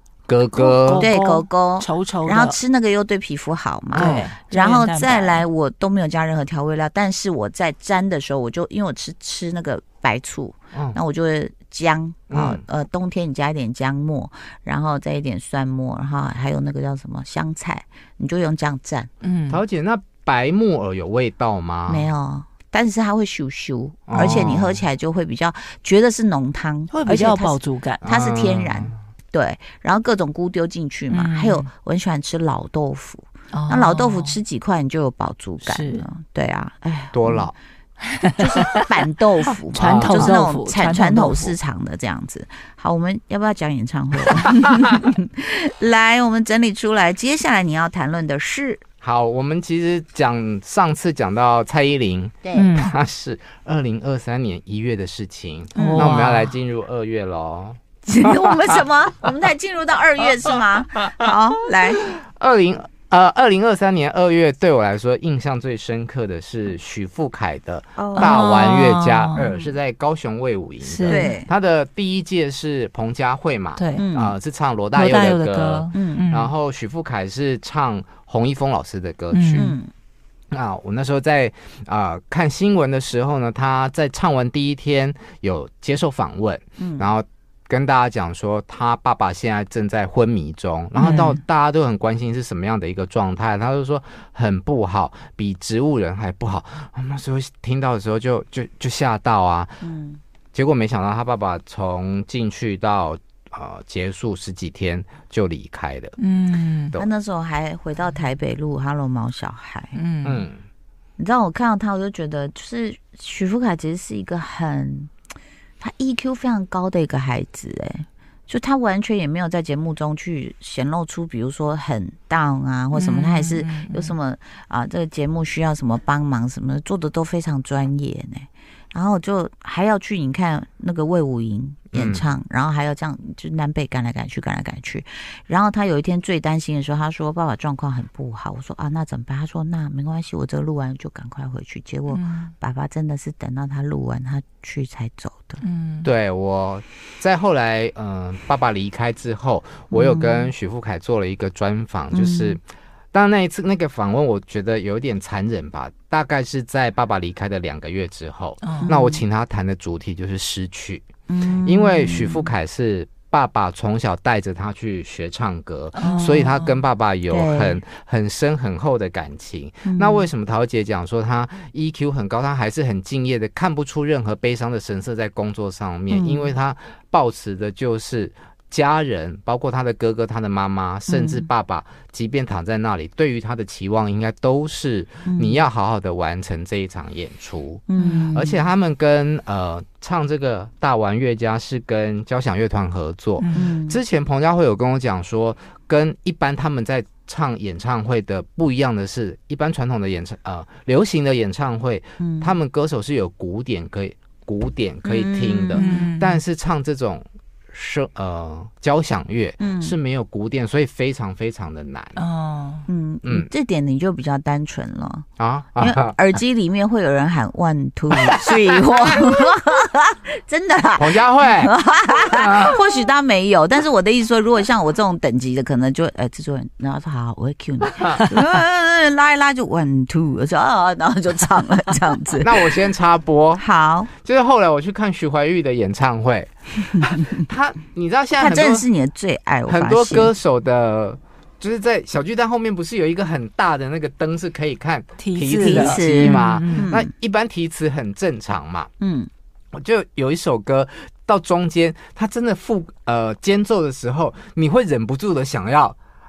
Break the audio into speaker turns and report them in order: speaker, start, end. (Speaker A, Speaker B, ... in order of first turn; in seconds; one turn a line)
Speaker A: 0.3-1.1
Speaker B: 0.5-2.6
Speaker C: 1.0-19.1
Speaker B: 3.9-5.4
Speaker A: 4.0-4.3
Speaker A: 10.7-11.0
Speaker A: 12.3-12.6
Speaker B: 19.2-19.6
Speaker A: 19.5-22.1
Speaker C: 21.9-37.5
Speaker A: 24.1-24.8
Speaker B: 24.1-24.5
Speaker B: 26.9-28.0
Speaker A: 28.0-28.9
Speaker B: 31.1-31.7
Speaker B: 33.5-34.4
Speaker B: 35.6-36.1
Speaker A: 37.1-37.5
Speaker B: 38.2-38.8
Speaker C: 38.4-48.8
Speaker B: 39.7-41.5
Speaker A: 39.8-40.4
Speaker A: 49.0-58.7
Speaker C: 52.4-52.7
Speaker B: 52.5-52.9
Speaker B: 55.7-56.5
Speaker C: 55.8-56.2
Speaker C: 58.0-62.0
Speaker A: 62.0-79.7
Speaker C: 68.0-68.4
Speaker B: 68.2-69.5
Speaker B: 70.8-71.3
Speaker C: 71.1-71.5
Speaker B: 73.8-74.1
Speaker C: 74.0-74.3
Speaker B: 74.9-76.5
Speaker C: 75.9-76.3
Speaker B: 79.3-79.7
Speaker C: 79.5-79.9
Speaker A: 80.5-99.8
Speaker C: 86.8-87.1
Speaker B: 91.0-91.4
Speaker C: 99.8-100.2
Speaker A: 100.5-106.1
Speaker B: 106.2-106.9
Speaker C: 107.0-110.0
Speaker B: 109.9-110.5
Speaker A: 110.2-110.6
Speaker C: 111.2-115.1
Speaker C: 115.8-145.6
Speaker B: 122.9-124.1
Speaker A: 131.9-132.2
Speaker B: 142.1-142.5
Speaker B: 145.6-146.1
Speaker A: 146.0-152.6
Speaker C: 149.9-150.5
Speaker C: 152.1-152.6
Speaker A: 153.1-161.0
Speaker B: 158.6-158.9
Speaker C: 158.8-159.2
Speaker C: 161.3-162.5
Speaker A: 161.6-187.8
Speaker B: 165.9-166.8
Speaker C: 166.0-166.4
Speaker C: 167.3-167.8
Speaker C: 169.8-170.3
Speaker C: 176.1-176.5
Speaker C: 181.1-181.5
Speaker C: 185.2-185.6
Speaker C: 187.9-188.6
Speaker B: 188.0-188.4
Speaker A: 188.3-212.2
Speaker B: 193.4-193.7
Speaker C: 193.5-194.0
Speaker C: 202.2-202.5
Speaker C: 205.0-206.0
Speaker B: 205.7-206.4
Speaker C: 209.6-209.9
Speaker B: 212.2-212.9
Speaker C: 212.9-215.3
Speaker A: 215.4-216.2
Speaker C: 215.8-232.8
Speaker A: 221.0-221.7
Speaker A: 222.3-222.7
Speaker A: 232.4-233.6
Speaker C: 233.6-234.1
Speaker A: 234.2-238.9
Speaker C: 238.4-240.3
Speaker A: 239.7-248.9
Speaker B: 245.2-246.9
Speaker C: 245.6-247.1
Speaker C: 249.0-249.3
Speaker A: 249.7-256.0